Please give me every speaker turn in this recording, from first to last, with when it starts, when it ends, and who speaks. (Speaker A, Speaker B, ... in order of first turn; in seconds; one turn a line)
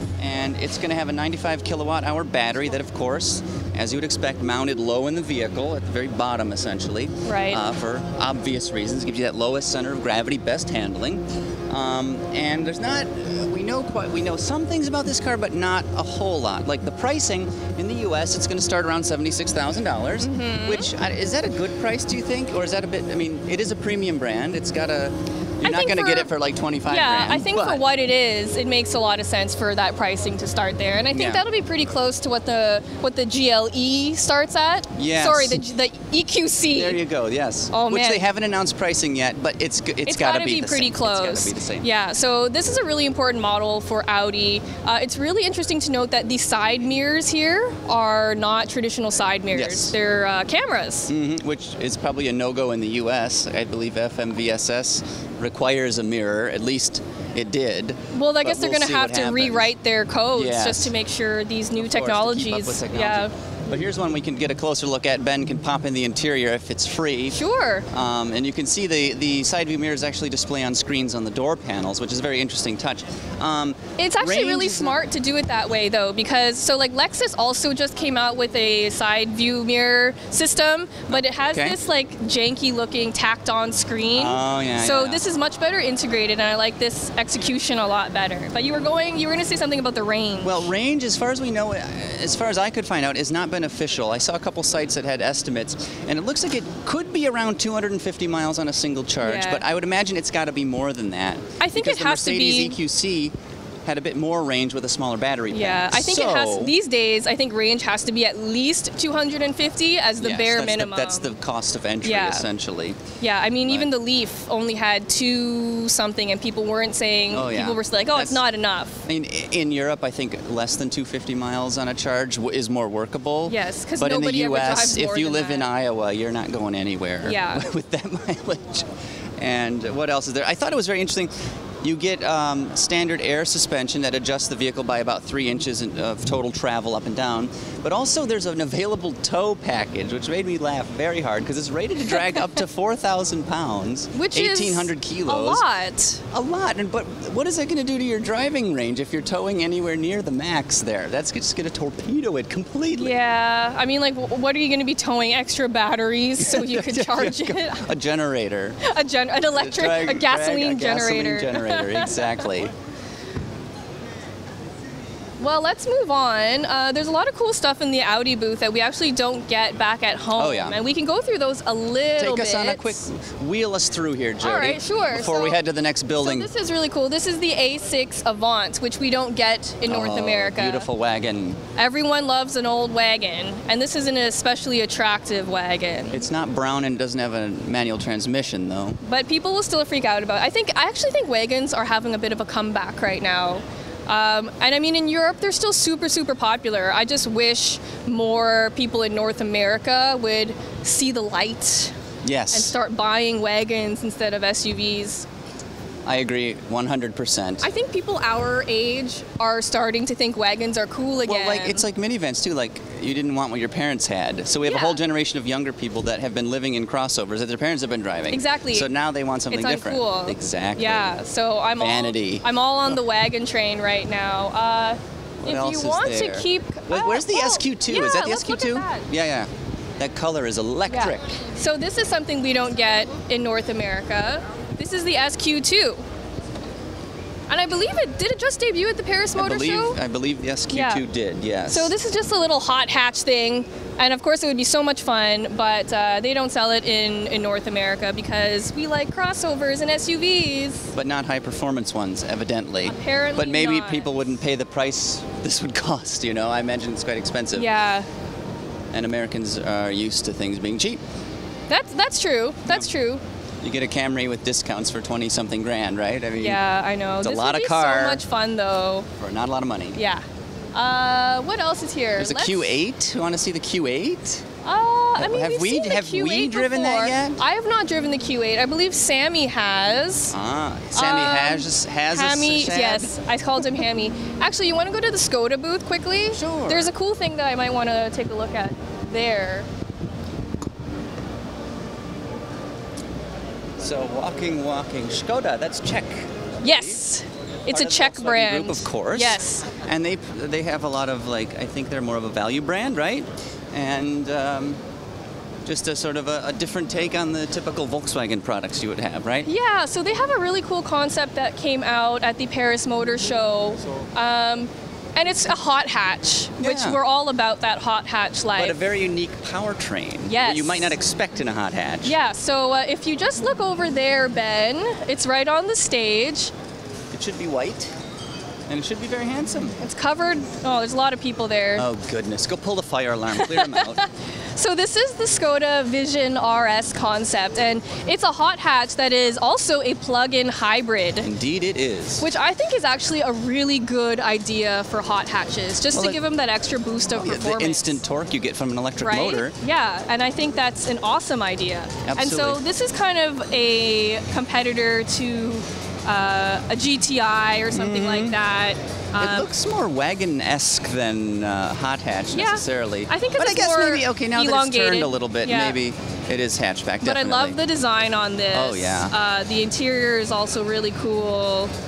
Speaker A: 0.2-27.8
Speaker B: 7.2-7.6
Speaker B: 20.2-20.9
Speaker B: 25.6-26.3
Speaker B: 26.9-37.0
Speaker A: 31.1-31.4
Speaker A: 34.9-35.6
Speaker A: 36.7-41.9
Speaker B: 37.7-38.2
Speaker B: 40.0-51.1
Speaker A: 49.5-49.9
Speaker A: 51.1-59.7
Speaker B: 58.1-63.3
Speaker A: 60.3-60.9
Speaker A: 61.8-67.4
Speaker B: 67.3-67.9
Speaker A: 67.9-75.0
Speaker B: 74.0-90.7
Speaker A: 81.1-81.8
Speaker A: 84.1-85.2
Speaker A: 90.4-103.3
Speaker B: 99.2-99.6
Speaker B: 101.6-102.8
Speaker A: 103.8-106.7
Speaker B: 105.5-111.3
Speaker A: 110.2-113.0
Speaker B: 112.0-112.5
Speaker B: 113.2-119.0
Speaker A: 117.3-118.4
Speaker A: 119.0-131.3
Speaker B: 123.5-125.7
Speaker B: 127.2-127.6
Speaker A: 131.8-145.6
Speaker B: 142.1-142.5
Speaker B: 144.1-146.2
Speaker A: 146.3-153.1
Speaker B: 152.9-157.8
Speaker A: 156.4-158.8
Speaker B: 158.8-162.4
Speaker A: 159.6-162.7
Speaker B: 165.4-173.0
Speaker A: 170.3-170.8
Speaker A: 172.2-176.5
Speaker B: 174.4-175.6
Speaker B: 176.2-180.9
Speaker A: 179.8-181.6
Speaker B: 181.8-186.2
Speaker A: 186.1-189.0
Speaker B: 189.0-201.9
Speaker A: 202.2-202.7
Speaker B: 202.5-205.3
Speaker A: 206.0-207.7
Speaker B: 207.6-211.8
Speaker A: 211.2-221.2
Speaker B: 214.6-215.0
Speaker B: 218.3-218.9
Speaker B: 219.5-229.1
Speaker A: 221.8-223.0
Speaker A: 225.4-231.3
Speaker B: 230.9-236.0
Speaker B: 237.5-240.0
Speaker A: 239.4-241.9
Speaker B: 240.7-241.0
Speaker B: 241.7-250.9
Speaker A: 250.9-257.7
Speaker B: 252.8-254.1
Speaker B: 257.5-258.1
Speaker A: 258.9-261.0
Speaker B: 261.7-263.2
Speaker A: 263.6-266.6
Speaker B: 266.4-269.1
Speaker A: 267.2-268.2
Speaker A: 269.2-270.0
Speaker B: 269.9-272.7
Speaker A: 272.2-274.4
Speaker B: 274.6-280.3
Speaker A: 275.2-277.4
Speaker A: 280.3-283.1
Speaker B: 280.9-289.7
Speaker A: 286.3-286.9
Speaker A: 293.8-297.0
Speaker B: 296.6-299.7
Speaker A: 297.7-304.8
Speaker A: 305.6-309.5
Speaker B: 309.4-318.8
Speaker A: 316.6-317.0
Speaker A: 318.5-322.1
Speaker B: 320.3-320.9
Speaker B: 322.0-326.5
Speaker A: 327.1-327.9
Speaker A: 328.7-329.8
Speaker B: 329.8-331.9
Speaker A: 331.8-334.1
Speaker B: 333.3-341.3
Speaker A: 341.2-342.3
Speaker B: 342.2-348.0
Speaker A: 345.9-346.2
Speaker A: 347.1-349.6
Speaker B: 349.0-359.5
Speaker A: 352.0-352.6
Speaker A: 357.7-358.4
Speaker A: 359.2-367.6
Speaker B: 362.3-365.8
Speaker B: 367.0-371.7
Speaker A: 368.5-369.1